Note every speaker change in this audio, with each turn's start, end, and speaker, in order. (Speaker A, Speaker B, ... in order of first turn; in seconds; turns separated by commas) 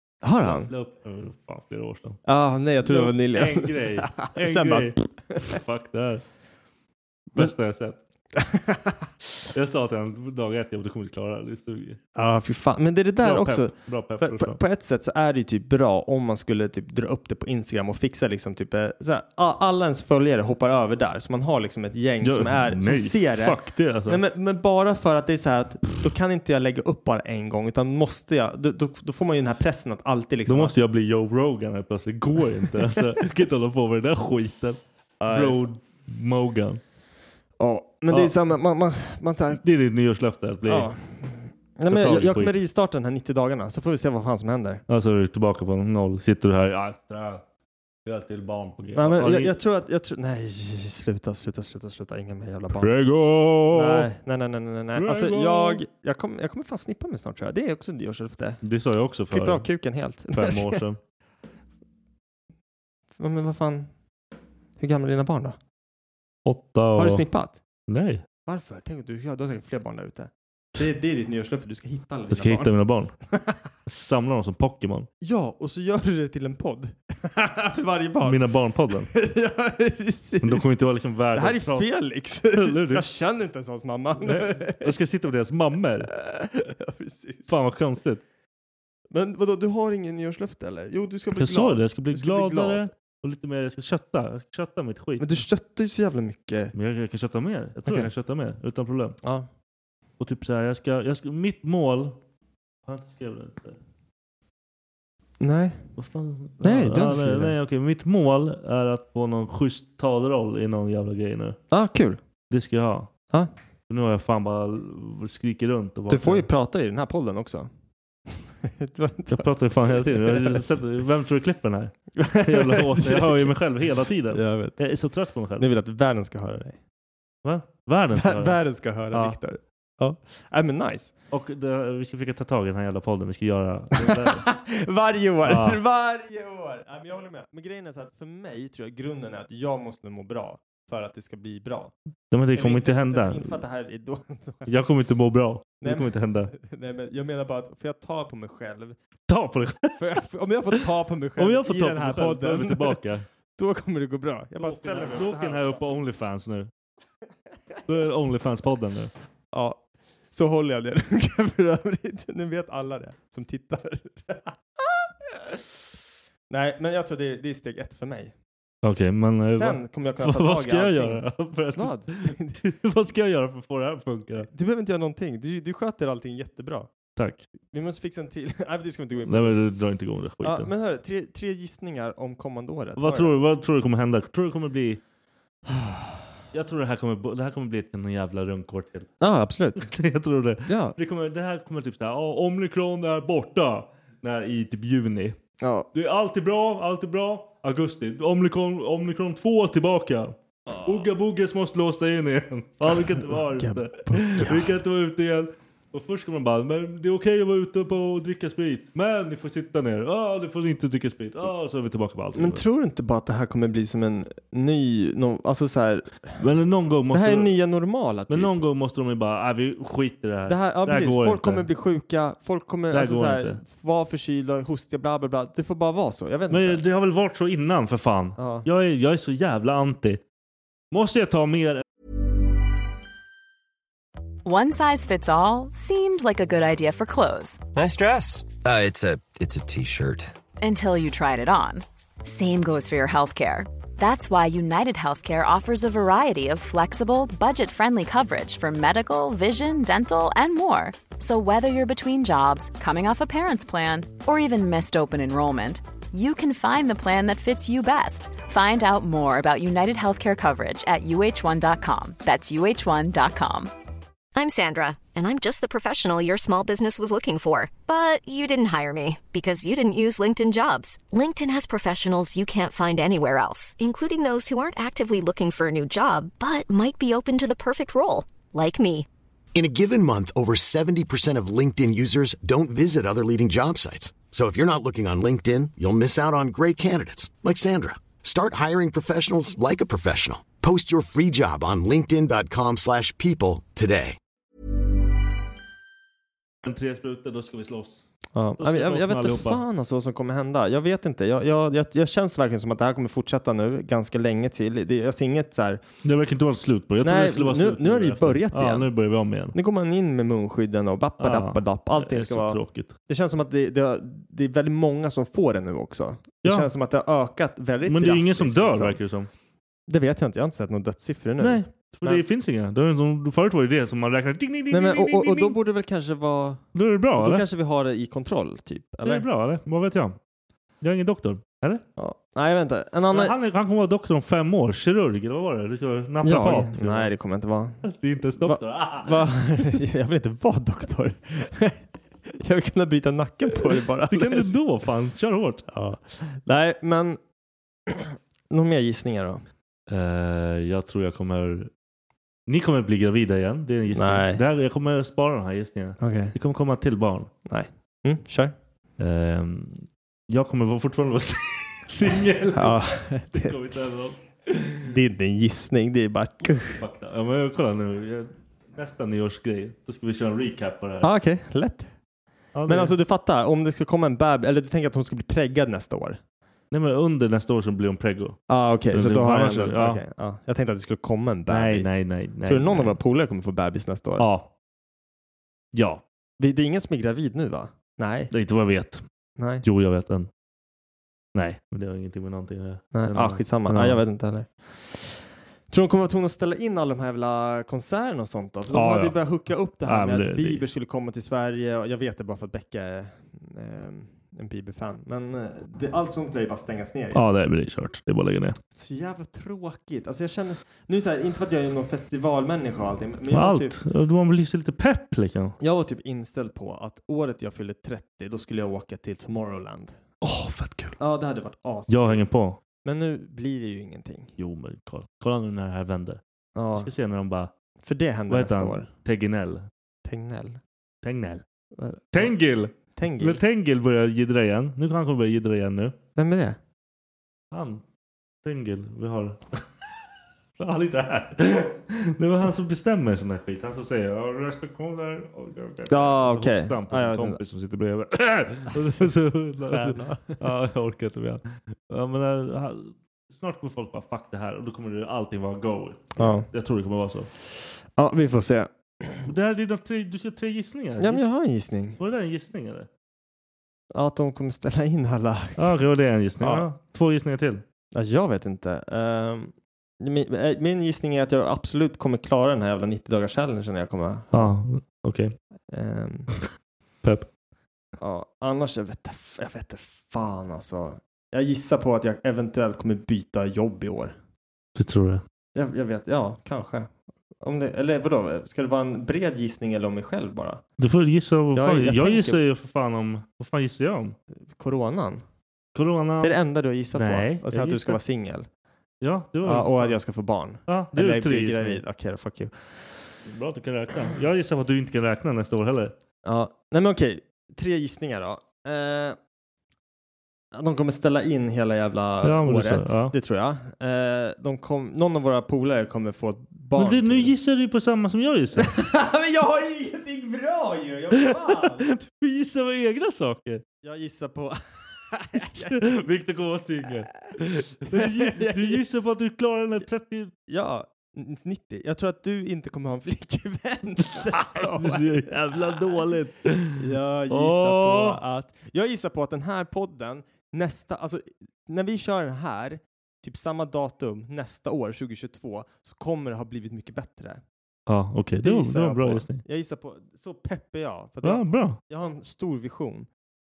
Speaker A: 0.2-0.7, Speaker B: 0.4-2.2, Speaker A: 2.2-5.6, Speaker B: 2.8-6.2, Speaker B: 7.3-8.0, Speaker A: 8.4-9.0, Speaker B: 9.5-12.0, Speaker A: 12.1-30.7, Speaker B: 13.2-14.6, Speaker B: 22.2-24.2, Speaker B: 30.5-36.8, Speaker A: 35.2-35.6, Speaker A: 37.6-39.6, Speaker B: 38.1-38.3, Speaker B: 39.6-40.9, Speaker A: 40.7-44.8, Speaker B: 41.9-42.5, Speaker B: 44.9-47.4, Speaker B: 48.0-49.5, Speaker A: 48.9-52.9, Speaker B: 52.8-54.1, Speaker A: 53.7-58.6, Speaker B: 54.9-55.8, Speaker B: 58.6-59.6, Speaker A: 59.3-60.8, Speaker B: 60.3-61.0, Speaker A: 63.2-63.9, Speaker A: 64.8-65.6, Speaker B: 66.5-67.2, Speaker A: 66.9-67.6, Speaker B: 67.9-68.2, Speaker A: 68.5-72.7, Speaker B: 72.3-73.1, Speaker B: 73.9-75.1, Speaker A: 75.2-78.4, Speaker B: 78.2-79.1, Speaker A: 79.1-80.6, Speaker B: 80.4-81.9, Speaker A: 81.3-84.9, Speaker B: 82.5-83.0, Speaker B: 84.2-86.1, Speaker A: 86.1-87.5, Speaker B: 87.5-88.2, Speaker A: 89.1-92.9, Speaker B: 91.3-95.4, Speaker A: 95.2-96.7, Speaker B: 96.7-99.2, Speaker A: 99.2-99.5, Speaker B: 100.2-102.2, Speaker B: 102.8-103.8, Speaker A: 105.4-105.8, Speaker B: 106.0-111.6, Speaker A: 106.6-107.5, Speaker A: 111.7-112.2, Speaker B: 112.5-113.1, Speaker B: 113.9-116.5, Speaker A: 116.1-117.7, Speaker A: 118.6-120.6, Speaker B: 119.3-125.7, Speaker A: 122.2-123.5, Speaker A: 124.3-124.8, Speaker A: 125.6-126.8, Speaker B: 127.4-129.4, Speaker A: 128.1-131.1, Speaker B: 131.3-134.4, Speaker A: 134.0-141.9, Speaker B: 135.4-135.8, Speaker B: 142.3-143.6, Speaker A: 142.5-144.7, Speaker B: 144.7-146.5, Speaker A: 145.8-148.9, Speaker B: 149.3-150.2, Speaker A: 150.0-153.0, Speaker B: 151.4-153.2, Speaker A: 153.6-155.8, Speaker B: 154.6-156.7, Speaker B: 157.9-159.1, Speaker A: 159.5-159.8, Speaker A: 160.3-165.7, Speaker A: 166.5-168.3, Speaker B: 168.8-174.5, Speaker A: 169.5-171.2, Speaker A: 171.7-172.6, Speaker A: 174.4-176.9, Speaker B: 177.2-177.5, Speaker A: 177.7-179.6, Speaker B: 179.3-180.7, Speaker A: 180.4-183.3, Speaker B: 183.0-185.0, Speaker A: 185.7-186.1, Speaker B: 186.5-189.1, Speaker A: 189.2-189.9, Speaker B: 189.8-195.4, Speaker A: 190.7-190.9, Speaker A: 195.6-195.9, Speaker B: 195.9-212.6, Speaker A: 200.7-201.0, Speaker A: 203.2-204.7, Speaker A: 212.3-216.4, Speaker B: 216.4-217.5, Speaker A: 217.1-218.5, Speaker B: 218.3-221.7, Speaker A: 220.5-226.8, Speaker B: 222.9-223.6, Speaker B: 226.5-230.2, Speaker A: 228.4-228.7, Speaker B: 230.9-231.8, Speaker C: 234.4-237.6, Speaker D: 237.7-240.3, Speaker C: 240.6-263.7, Speaker E: 264.3-279.1, Speaker F: 279.5-294.2, Speaker B: 296.6-298.0, Speaker A: 298.3-305.8, Speaker B: 298.6-299.6, Speaker B: 306.0-309.5, Speaker A: 307.0-308.9, Speaker A: 309.5-319.0, Speaker B: 311.2-312.9, Speaker B: 316.4-316.7, Speaker B: 317.9-319.3, Speaker A: 319.9-322.2, Speaker B: 321.4-325.6, Speaker A: 324.7-329.2, Speaker B: 326.7-327.4, Speaker B: 329.0-330.2, Speaker B: 330.8-331.8, Speaker A: 332.0-333.3, Speaker B: 333.1-337.1, Speaker A: 336.2-337.8, Speaker B: 337.8-339.2, Speaker A: 338.4-341.8, Speaker A: 342.4-344.5, Speaker B: 344.1-345.6, Speaker A: 345.7-347.2, Speaker A: 347.9-349.4, Speaker B: 349.9-351.7, Speaker B: 352.5-357.3, Speaker A: 353.9-354.4, Speaker A: 356.0-356.3, Speaker A: 357.4-358.5, Speaker B: 359.0-364.9, Speaker A: 362.5-363.5, Speaker A: 364.8-366.8, Speaker B: 366.5-371.1, Speaker A: 371.0-371.9, Speaker B: 372.5-372.9, Speaker A: 372.7-376.2, Speaker B: 376.7-380.0, Speaker A: 378.5-384.2, Speaker B: 381.5-382.9, Speaker B: 384.2-384.5, Speaker B: 385.7-386.0, Speaker A: 386.4-388.3, Speaker B: 388.3-389.0, Speaker A: 389.4-389.6, Speaker B: 389.6-390.3, Speaker B: 391.3-394.0, Speaker A: 392.9-407.2, Speaker B: 398.7-399.2, Speaker B: 399.8-400.6, Speaker B: 407.1-408.6, Speaker A: 408.7-413.7, Speaker B: 413.3-415.6, Speaker A: 415.6-419.9, Speaker B: 420.2-421.0, Speaker A: 421.0-422.3, Speaker B: 421.9-422.6, Speaker A: 422.8-424.3, Speaker B: 424.4-426.2, Speaker A: 426.6-426.9, Speaker B: 426.7-427.5, Speaker A: 427.8-428.9, Speaker B: 428.3-429.7, Speaker A: 430.0-430.6, Speaker B: 431.0-431.4, Speaker A: 431.8-432.3, Speaker B: 432.1-435.9, Speaker A: 432.9-433.4, Speaker A: 436.2-436.6, Speaker B: 437.5-437.8, Speaker B: 438.4-439.6, Speaker B: 440.6-457.3, Speaker A: 445.9-447.4, Speaker A: 449.7-450.4, Speaker A: 456.2-456.5, Speaker A: 457.9-459.3, Speaker B: 459.2-461.2, Speaker A: 461.0-462.0, Speaker B: 462.0-462.9, Speaker A: 463.9-465.8, Speaker B: 465.6-467.6, Speaker A: 466.4-466.7, Speaker A: 467.9-474.5, Speaker B: 474.3-475.3, Speaker A: 475.7-476.3, Speaker A: 478.0-484.1, Speaker B: 484.7-485.2, Speaker A: 485.5-486.9, Speaker A: 487.4-490.6, Speaker B: 490.8-494.1, Speaker A: 491.5-492.4, Speaker A: 494.5-495.2, Speaker B: 495.7-496.4, Speaker A: 496.2-498.5, Speaker B: 496.9-498.0, Speaker B: 499.0-500.0, Speaker A: 499.4-502.8, Speaker B: 500.7-501.8, Speaker B: 503.2-505.9, Speaker A: 506.2-509.2, Speaker A: 510.5-517.3, Speaker B: 512.2-513.1, Speaker B: 516.7-518.8, Speaker A: 518.6-521.9, Speaker B: 521.3-523.6, Speaker A: 523.8-524.6, Speaker A: 525.1-525.8, Speaker B: 525.4-530.3, Speaker A: 527.9-528.8, Speaker A: 530.5-535.9, Speaker B: 534.3-538.2, Speaker A: 536.8-547.4, Speaker B: 547.9-549.4, Speaker A: 548.4-553.1, Speaker B: 551.2-551.8